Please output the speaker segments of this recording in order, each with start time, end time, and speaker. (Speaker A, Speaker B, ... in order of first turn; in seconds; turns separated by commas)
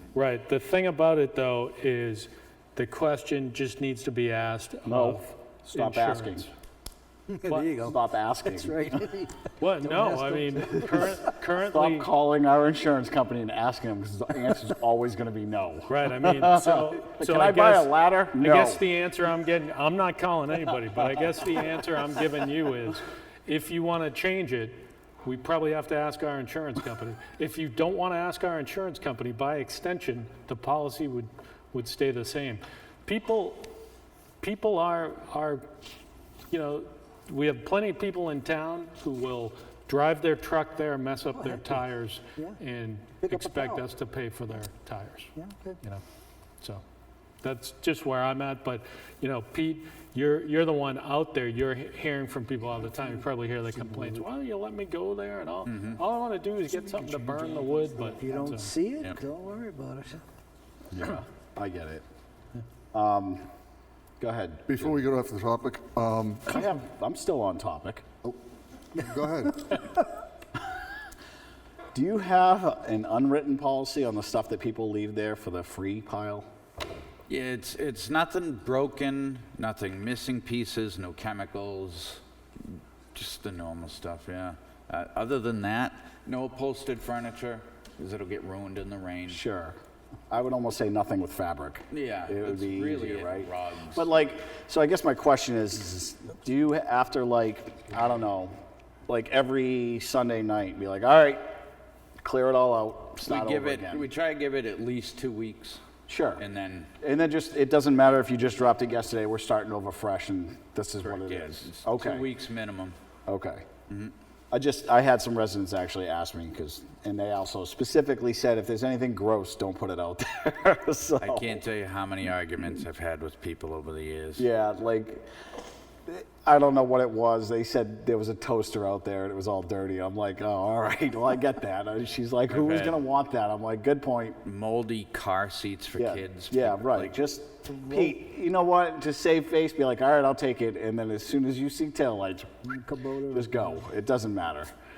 Speaker A: 0.1-6.4, Speaker B: 4.8-6.5, Speaker C: 7.3-11.3, Speaker A: 7.5-7.8, Speaker B: 7.8-9.1, Speaker A: 9.6-12.1, Speaker B: 11.7-18.8, Speaker A: 15.9-33.7, Speaker A: 34.4-35.6, Speaker A: 36.5-45.3, Speaker C: 41.3-42.6, Speaker C: 43.2-43.9, Speaker C: 45.4-45.8, Speaker A: 47.4-58.7, Speaker D: 55.7-56.0, Speaker C: 58.1-60.2, Speaker B: 60.9-62.0, Speaker B: 62.9-63.4, Speaker B: 64.2-65.0, Speaker E: 64.7-66.5, Speaker B: 66.5-68.1, Speaker E: 69.0-69.6, Speaker B: 71.9-76.5, Speaker D: 77.3-89.4, Speaker B: 89.3-89.8, Speaker B: 90.3-98.5, Speaker D: 91.9-94.1, Speaker B: 99.1-101.5, Speaker B: 102.2-104.1, Speaker D: 103.2-105.8, Speaker B: 106.1-106.4, Speaker D: 106.4-106.9, Speaker B: 107.0-112.3, Speaker D: 111.0-113.0, Speaker B: 113.3-113.7, Speaker B: 114.5-121.6, Speaker D: 121.2-124.5, Speaker B: 124.4-125.2, Speaker B: 126.1-134.4, Speaker D: 132.5-133.0, Speaker D: 134.4-137.1, Speaker B: 136.0-142.7, Speaker C: 142.7-143.8, Speaker B: 143.3-144.7